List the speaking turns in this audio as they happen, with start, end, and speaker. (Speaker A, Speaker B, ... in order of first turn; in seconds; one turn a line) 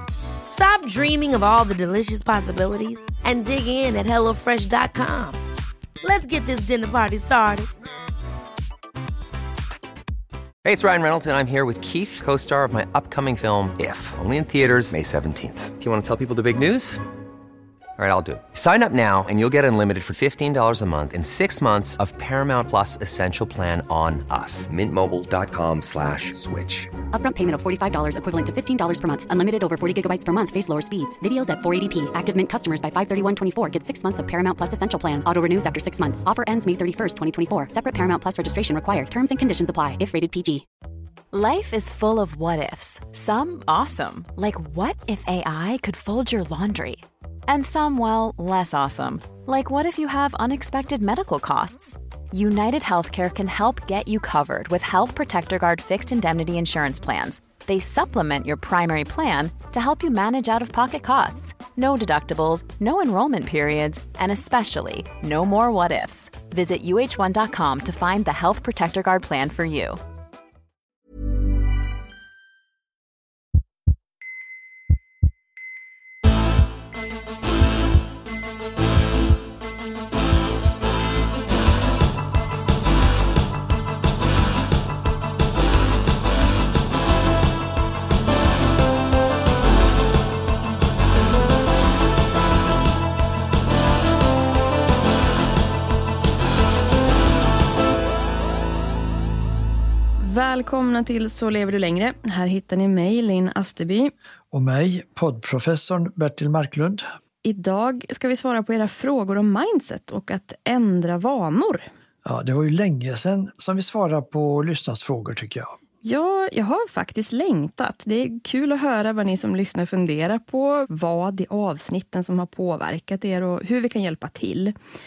Speaker A: 0.5-5.4
Speaker A: 6.0-7.7
Speaker B: 10.6-17.0
Speaker B: 18.0-26.9
Speaker C: 27.1-40.6
Speaker D: 41.3-70.0
Speaker E: 100.2-104.1
Speaker F: 104.5-107.0
Speaker E: 107.4-111.9
Speaker F: 112.2-115.8
Speaker E: 116.0-124.7